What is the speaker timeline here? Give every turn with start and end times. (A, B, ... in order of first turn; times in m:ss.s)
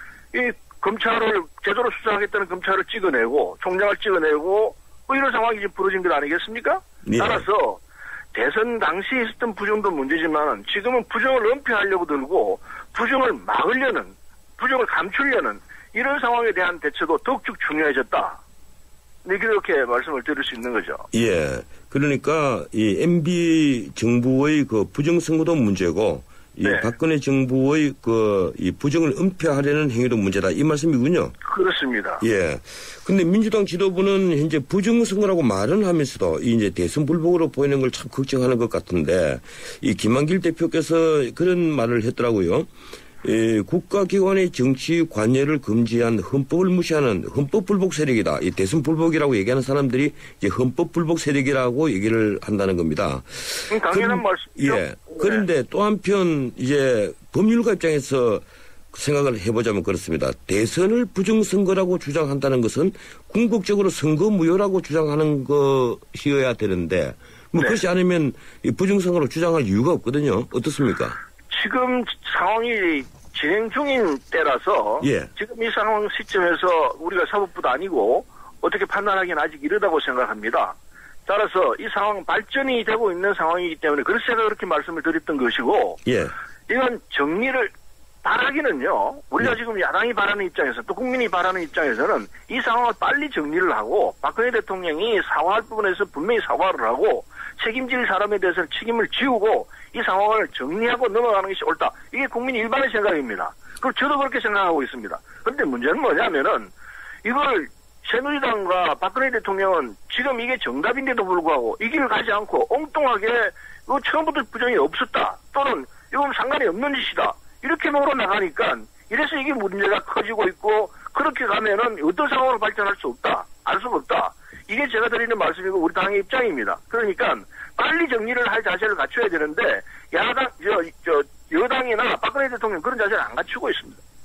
0:00.3-0:07.8 A
0:07.0-0:07.4 B
0:08.3-0:18.4 A
0:19.2-0:21.0 A
0:21.1-0:31.4 B
0:31.4-0:32.2 A
0:32.2-0:42.7 B
0:43.2-1:11.2 B
0:53.7-0:55.4 A
1:07.6-1:07.8 A
1:11.5-1:20.8 A
1:15.0-1:15.3 B
1:21.3-1:26.0 A
1:26.0-1:26.3 B
1:26.7-1:27.7 A
1:28.2-1:46.7 A
1:47.2-2:14.0 A